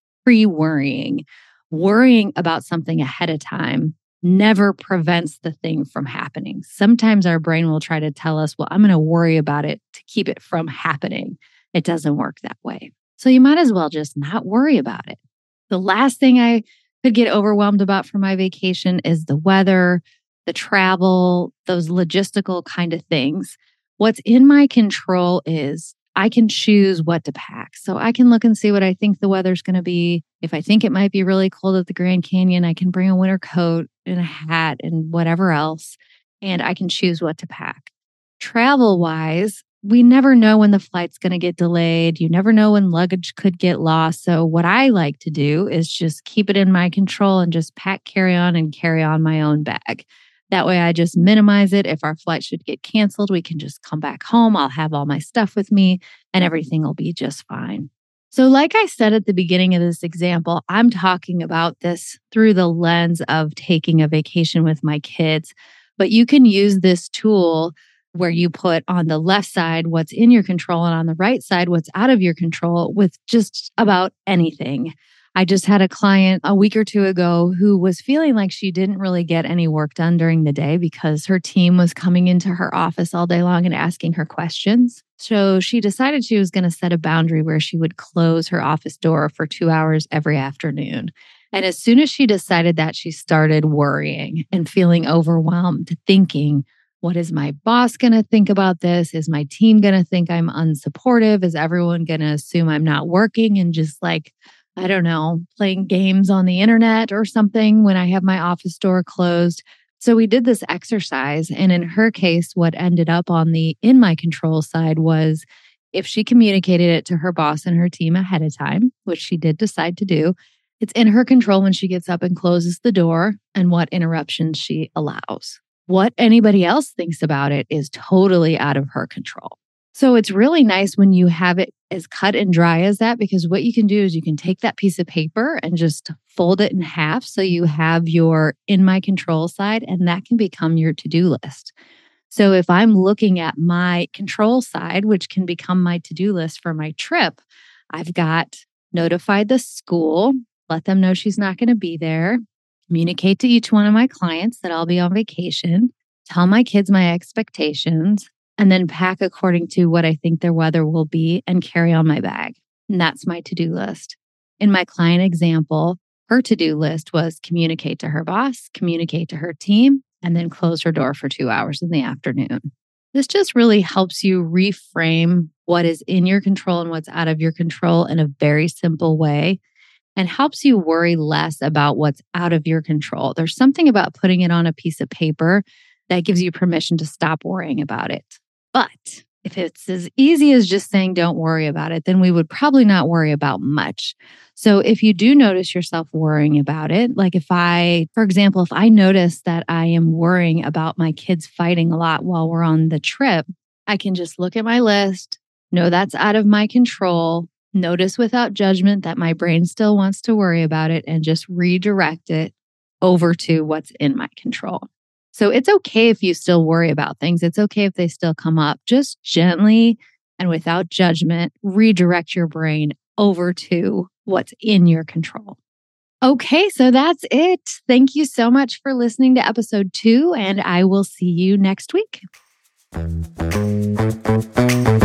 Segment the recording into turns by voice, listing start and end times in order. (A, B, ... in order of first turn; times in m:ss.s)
0:00.2-0:15.2 A
0:15.7-2:21.7 A
2:22.3-2:27.4 A
2:27.9-2:59.6 A
3:00.2-3:45.6 A
3:46.2-3:52.2 A